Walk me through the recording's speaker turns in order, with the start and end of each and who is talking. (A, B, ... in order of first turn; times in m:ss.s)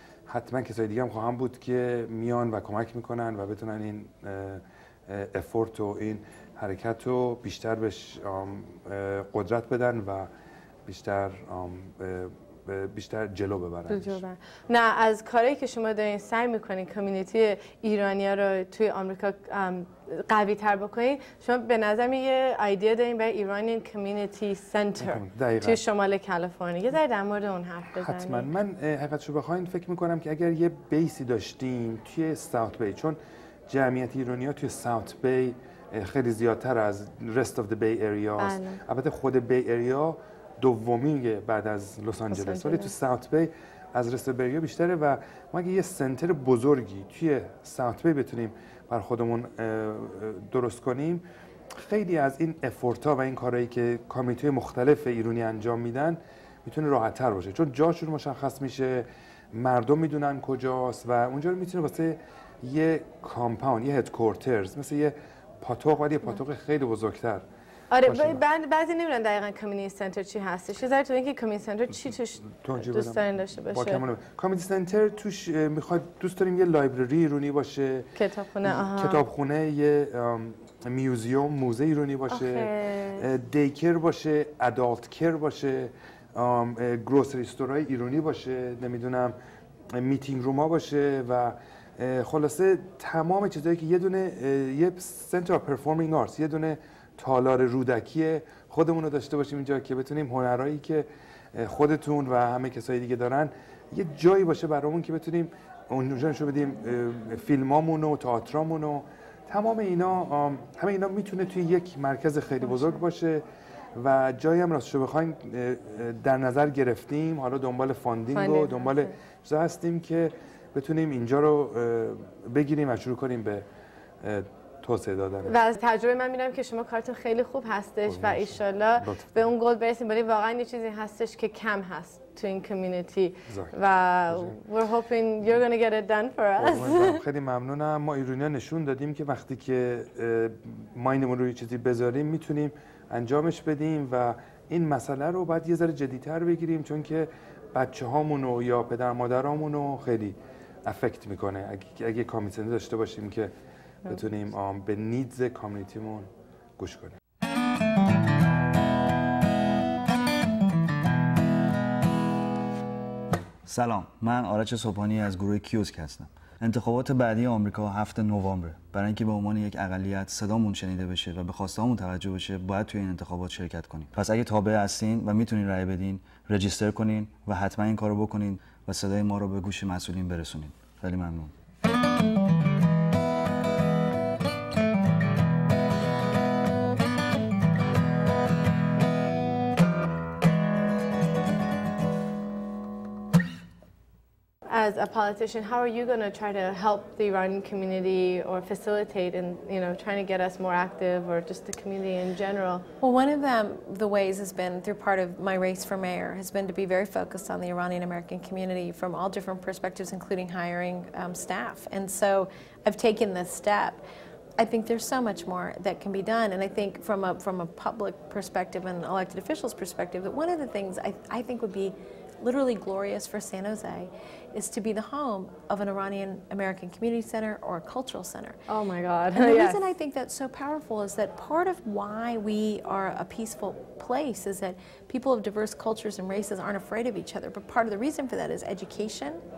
0:00.3-0:10.3 A
0:10.8-0:14.2 A
0:13.9-0:28.5 B
0:25.0-0:25.8 A
0:28.0-1:07.4 A
0:38.4-0:38.8 B
0:42.3-0:42.9 B
1:07.9-1:14.0 B
1:08.0-1:08.4 A
1:12.0-1:18.1 A
1:18.2-1:19.2 B
1:18.6-1:29.3 A
1:22.3-1:23.3 B
1:29.9-1:53.4 A
1:52.6-1:53.0 B
1:53.9-2:03.6 A
1:58.3-1:59.1 B
2:04.2-2:05.5 A
2:05.5-2:17.2 B
2:08.0-2:09.5 A
2:13.5-2:13.7 A
2:14.3-2:14.6 A
2:16.6-2:33.5 A
2:34.0-2:37.2 A
2:43.6-3:01.5 C
3:14.7-3:22.8 B
3:23.0-3:34.0 D
3:34.6-3:48.6 D
3:48.7-3:49.9 B
3:49.3-3:59.4 D